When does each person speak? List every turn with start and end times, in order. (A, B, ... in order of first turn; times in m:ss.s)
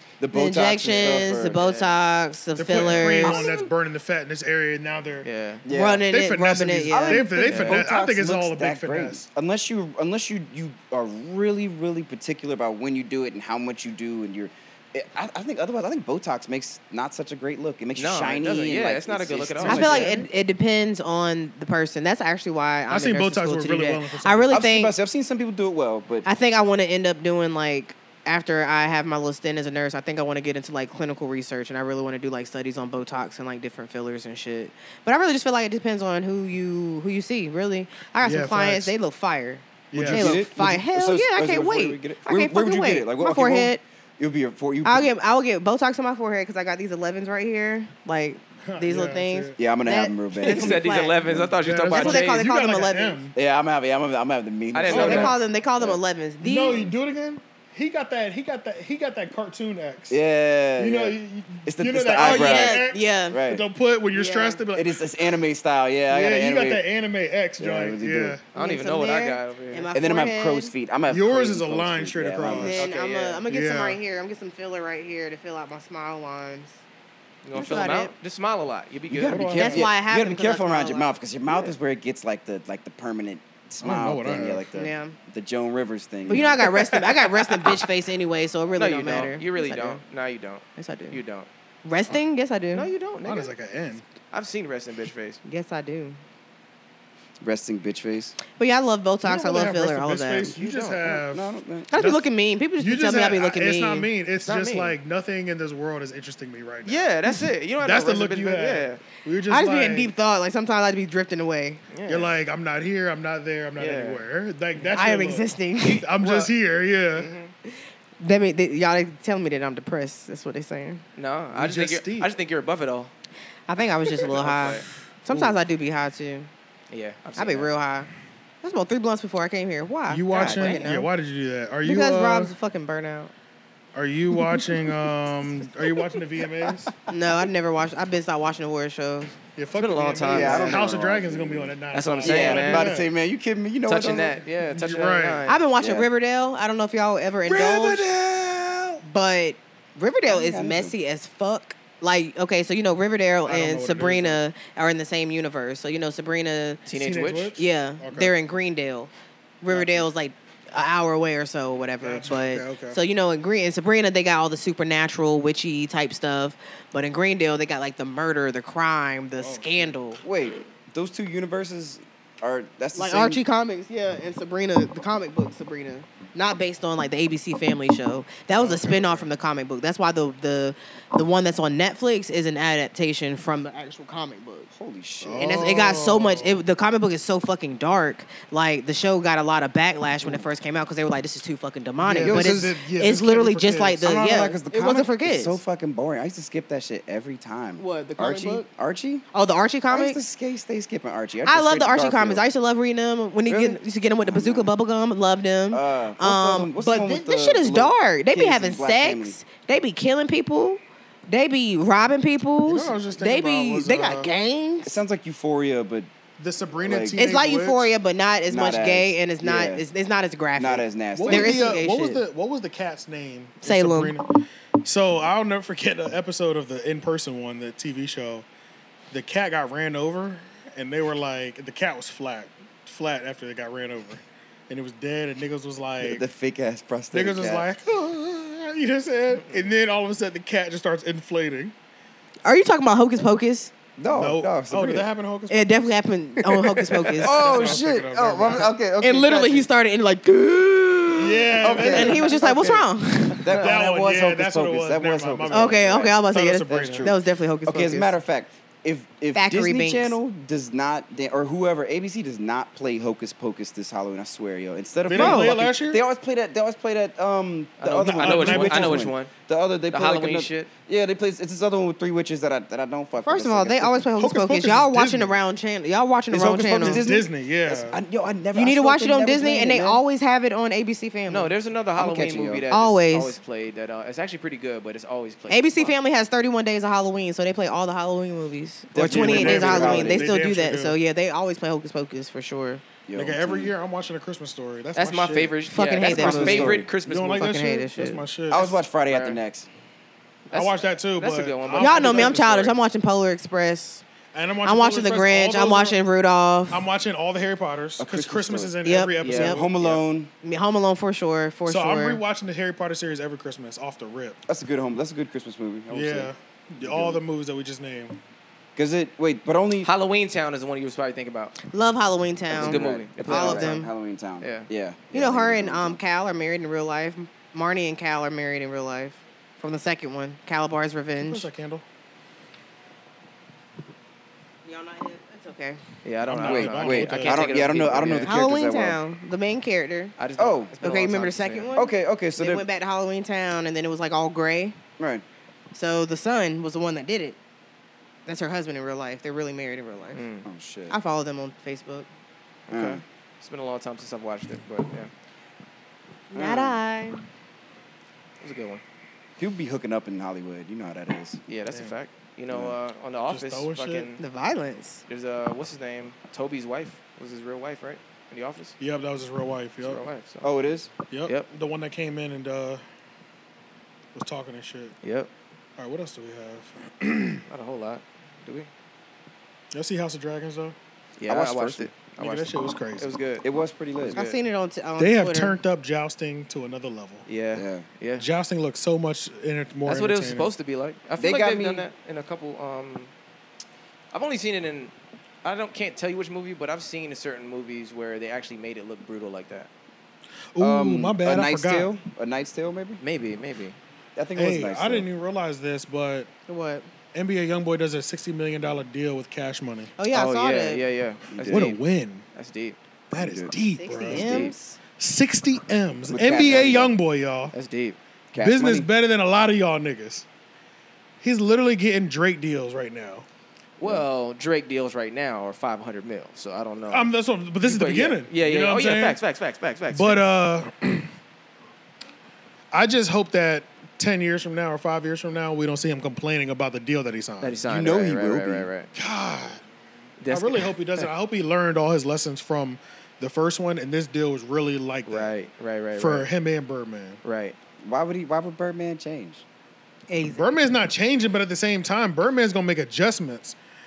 0:00.2-0:01.6 A
0:00.3-0:03.6 B
0:01.0-0:02.0 C
0:02.6-0:05.3 D
0:03.0-0:03.4 A
0:05.2-0:05.6 C
0:05.6-0:06.0 A
0:05.7-0:07.5 B
0:06.1-0:09.3 D
0:06.9-0:20.2 A
0:07.5-0:07.9 C
0:18.0-0:20.2 C
0:19.6-0:20.1 D
0:19.7-0:24.9 B
0:22.9-0:24.6 D
0:24.5-0:26.3 A
0:26.2-0:43.8 B
0:38.2-0:38.9 D
0:39.9-0:40.5 D
0:40.0-0:45.1 A
0:44.8-0:51.4 B
0:48.6-0:49.6 D
0:49.6-0:51.6 A
0:50.4-0:52.4 C
0:51.6-0:53.3 D
0:51.9-0:53.2 B
0:53.4-0:56.0 A
0:54.7-0:55.4 C
0:54.9-0:55.3 D
0:54.9-0:56.9 B
0:56.4-1:00.2 D
1:00.1-1:03.6 A
1:00.8-1:05.0 D
1:02.2-1:03.4 B
1:04.1-1:04.6 B
1:04.7-1:06.8 A
1:06.1-1:08.4 D
1:07.6-1:08.4 A
1:08.5-1:10.7 B
1:08.6-1:09.9 C
1:09.9-1:12.8 A
1:11.1-1:12.8 D
1:12.4-1:16.8 B
1:12.7-1:13.4 C
1:13.5-1:14.0 D
1:17.4-1:19.8 C
1:17.5-1:18.1 B
1:19.1-1:26.7 A
1:19.3-1:19.9 D
1:19.6-1:21.1 B
1:21.5-1:21.7 C
1:23.8-1:24.7 D
1:24.7-1:25.2 B
1:26.3-1:30.0 B
1:26.6-1:27.9 C
1:28.8-1:31.5 C
1:30.8-1:31.2 B
1:31.8-1:32.9 B
1:32.7-1:33.5 C
1:33.2-1:34.0 D
1:34.3-1:35.4 C
1:35.4-1:36.2 B
1:37.4-1:38.4 A
1:38.6-1:40.5 B
1:39.2-1:42.3 D
1:40.4-1:41.9 A
1:40.6-1:41.0 C
1:41.9-1:44.1 B
1:42.8-1:47.1 D
1:44.4-1:45.0 C
1:46.8-1:49.0 C
1:47.8-1:50.1 D
1:49.5-1:51.9 B
1:51.9-1:52.3 C
1:52.0-1:57.3 D
1:53.8-1:54.2 C
1:54.9-1:56.1 B
1:55.8-1:56.5 C
1:57.2-1:57.5 C
1:57.7-2:01.0 B
2:01.2-2:03.1 C
2:01.5-2:02.3 D
2:03.7-2:06.5 B
2:04.2-2:04.9 C
2:06.9-2:07.7 C
2:07.4-2:08.1 B
2:08.6-2:11.1 B
2:10.1-2:12.5 D
2:10.3-2:10.8 C
2:11.8-2:13.3 B
2:14.0-2:17.0 D
2:14.6-2:14.8 B
2:17.1-2:19.4 B
2:19.6-2:23.1 D
2:19.8-2:20.9 C
2:20.3-2:24.4 A
2:21.9-2:23.0 C
2:23.9-2:25.6 C
2:24.6-2:25.5 D
2:25.5-2:28.1 B
2:25.8-2:26.1 A
2:27.5-2:28.4 D
2:28.1-2:29.0 A
2:29.0-2:36.9 B
2:30.3-2:30.9 A
2:33.5-2:34.4 D
2:36.9-2:37.5 C
2:36.9-2:38.3 D
2:37.6-2:39.1 B
2:39.6-2:50.2 B
2:39.7-2:40.1 D
2:42.0-2:43.0 D
2:49.4-2:49.9 D
2:50.2-2:53.4 A
2:52.9-3:04.7 B
2:58.6-2:59.3 D
3:04.7-3:05.6 A
3:05.2-3:06.6 D
3:05.4-3:15.6 B
3:12.0-3:14.2 D
3:12.2-3:12.7 A
3:14.0-3:19.2 A
3:17.8-3:18.6 B
3:19.3-3:20.2 B
3:19.9-3:22.4 A
3:21.4-3:35.0 B
3:23.5-3:24.7 A
3:25.7-3:29.4 A
3:32.7-3:34.3 D
3:34.8-3:36.1 A
3:36.4-3:37.9 D
3:36.8-3:37.2 A
3:37.2-3:42.2 B
3:38.5-3:39.8 A
3:40.6-3:41.6 A
3:41.2-3:44.3 D
3:43.6-3:44.2 B
3:44.8-3:48.5 D
3:49.1-3:56.2 D
3:56.0-3:57.7 A
3:57.1-4:01.7 D
4:02.4-4:03.7 B
4:04.0-4:05.1 A
4:04.1-4:05.9 D
4:05.5-4:07.8 B
4:07.0-4:08.7 D
4:07.2-4:09.7 A
4:09.0-4:13.7 B
4:11.2-4:12.3 D
4:11.6-4:12.6 A
4:12.3-4:13.5 C
4:13.4-4:15.9 A
4:13.5-4:17.2 D
4:15.5-4:18.1 B
4:17.6-4:34.1 A
4:19.3-4:20.2 B
4:25.1-4:26.0 D
4:25.1-4:25.6 B
4:27.8-4:29.3 C
4:28.1-4:29.1 D
4:29.9-4:30.7 C
4:33.2-4:37.1 B
4:34.2-4:35.4 D
4:36.3-4:40.0 A
4:36.8-4:38.0 D
4:38.5-4:41.5 B
4:41.3-4:45.9 C
4:42.0-4:42.7 A
4:42.7-4:43.4 B
4:45.5-4:52.8 B
4:48.9-4:50.3 A
4:49.0-4:49.4 C
4:49.1-4:51.0 D
4:53.1-4:53.7 A
4:53.2-4:55.6 D
4:55.0-4:58.2 C
4:55.7-4:58.1 B
4:56.0-4:56.9 A
4:56.1-4:58.7 D
4:58.5-4:59.7 A
4:59.1-4:59.4 C
5:00.5-5:02.8 C
5:00.5-5:02.5 D
5:01.8-5:04.0 B
5:04.3-5:06.0 D
5:04.6-5:06.8 B
5:06.7-5:09.6 D
5:08.0-5:08.8 A
5:08.8-5:09.6 B
5:09.2-5:10.0 C
5:09.3-5:10.3 A
5:10.4-5:12.2 B
5:11.7-5:14.4 D
5:14.5-5:17.2 A
5:15.9-5:18.2 D
5:18.8-5:19.9 A
5:19.8-5:21.6 C
5:21.7-5:23.9 B
5:22.5-5:23.8 C
5:22.6-5:26.0 A
5:24.4-5:24.7 C
5:25.1-5:31.5 B
5:31.2-5:31.8 D
5:34.6-5:35.8 B
5:36.0-5:38.4 C
5:36.2-5:37.6 D
5:36.4-5:39.0 A
5:38.1-5:40.2 B
5:40.2-5:41.7 C
5:40.4-5:40.7 A
5:40.8-5:44.8 B
5:41.7-5:42.7 A
5:45.0-5:45.2 A
5:45.7-5:47.4 B
5:48.3-5:50.2 B
5:50.1-5:50.5 C
5:50.4-5:51.0 A
5:50.9-5:52.1 B
5:52.7-5:55.1 C
5:52.7-5:53.0 A
5:56.3-5:57.2 B
5:56.3-5:56.8 A
5:58.4-5:58.8 C
5:59.4-6:01.4 A
6:01.5-6:04.2 C
6:01.7-6:01.9 D
6:03.3-6:04.1 D
6:04.2-6:05.0 B
6:05.1-6:08.8 C
6:08.8-6:10.0 D
6:09.8-6:10.5 C
6:10.4-6:10.9 A
6:11.1-6:12.8 D
6:14.2-6:15.0 D
6:15.0-6:15.3 C
6:15.8-6:17.4 D
6:17.5-6:18.7 C
6:19.7-6:20.8 D
6:21.2-6:23.4 C
6:21.3-6:21.9 A
6:22.2-6:23.1 D
6:23.4-6:24.2 A
6:24.0-6:25.6 B
6:24.1-6:24.4 C
6:25.0-6:27.3 D
6:27.3-6:28.3 C
6:27.5-6:27.8 A
6:28.2-6:30.5 D
6:29.9-6:33.1 C
6:31.2-6:31.9 A
6:34.1-6:34.9 C
6:35.4-6:39.7 C
6:40.5-6:41.9 D
6:40.6-6:43.0 A
6:43.0-6:43.8 C
6:44.2-6:45.1 A
6:44.4-6:46.3 D
6:46.5-6:46.9 B
6:47.1-6:49.9 D
6:50.0-6:50.8 B
6:50.1-6:51.8 C
6:51.3-6:51.8 A
6:51.5-6:52.2 D
6:52.3-6:52.8 C
6:53.1-6:57.5 D
6:53.2-6:54.8 A
6:53.7-6:54.6 B
6:54.1-6:54.5 C
6:56.1-6:56.9 A
6:57.5-6:58.0 C
6:58.3-6:58.9 A
6:58.4-7:00.3 D
7:01.2-7:03.3 D
7:03.8-7:07.1 C
7:06.9-7:09.2 D
7:07.6-7:10.2 C
7:09.9-7:11.1 D
7:12.7-7:17.6 D
7:17.4-7:18.9 C
7:17.7-7:18.7 A
7:19.0-7:19.6 D
7:20.2-7:21.1 C
7:20.3-7:25.3 D
7:25.1-7:26.3 C
7:26.0-7:27.2 D
7:27.2-7:27.6 C
7:27.8-7:29.4 A
7:30.1-7:30.6 B
7:30.3-7:33.6 D